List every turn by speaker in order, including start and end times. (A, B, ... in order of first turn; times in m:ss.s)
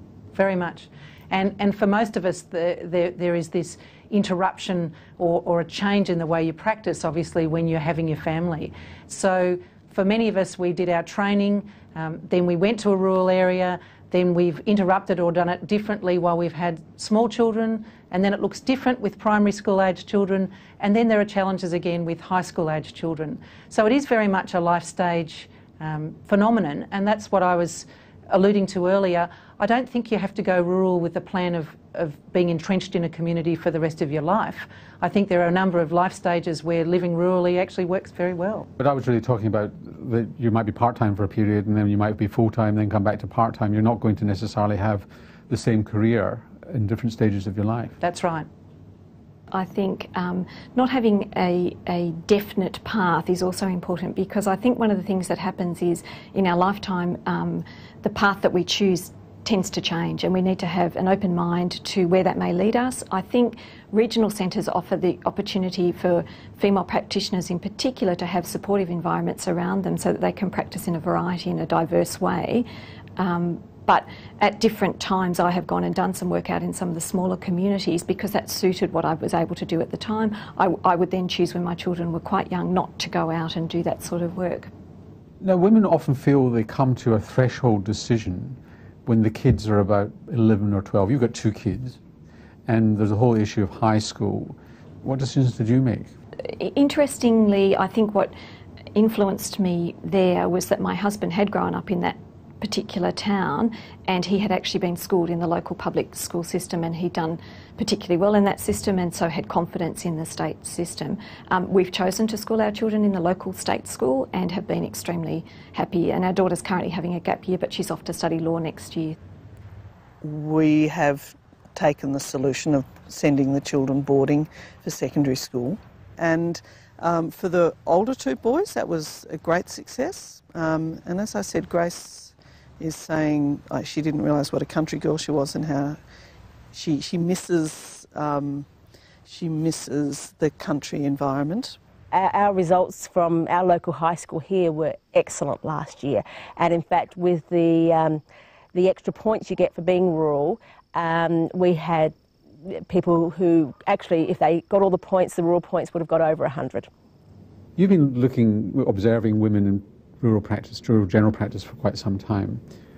0:00.3-0:38.7 A
0:38.8-0:48.0 B
0:48.0-0:48.5 A
0:49.5-1:24.7 C
1:25.4-1:32.0 B
1:32.6-1:36.1 B
1:36.5-1:38.3 C
1:38.9-1:59.2 C
2:00.2-2:16.0 D
2:16.7-2:18.7 D
2:19.2-2:21.8 D
2:22.1-2:28.2 E
2:28.7-2:36.9 E
2:37.8-2:42.6 B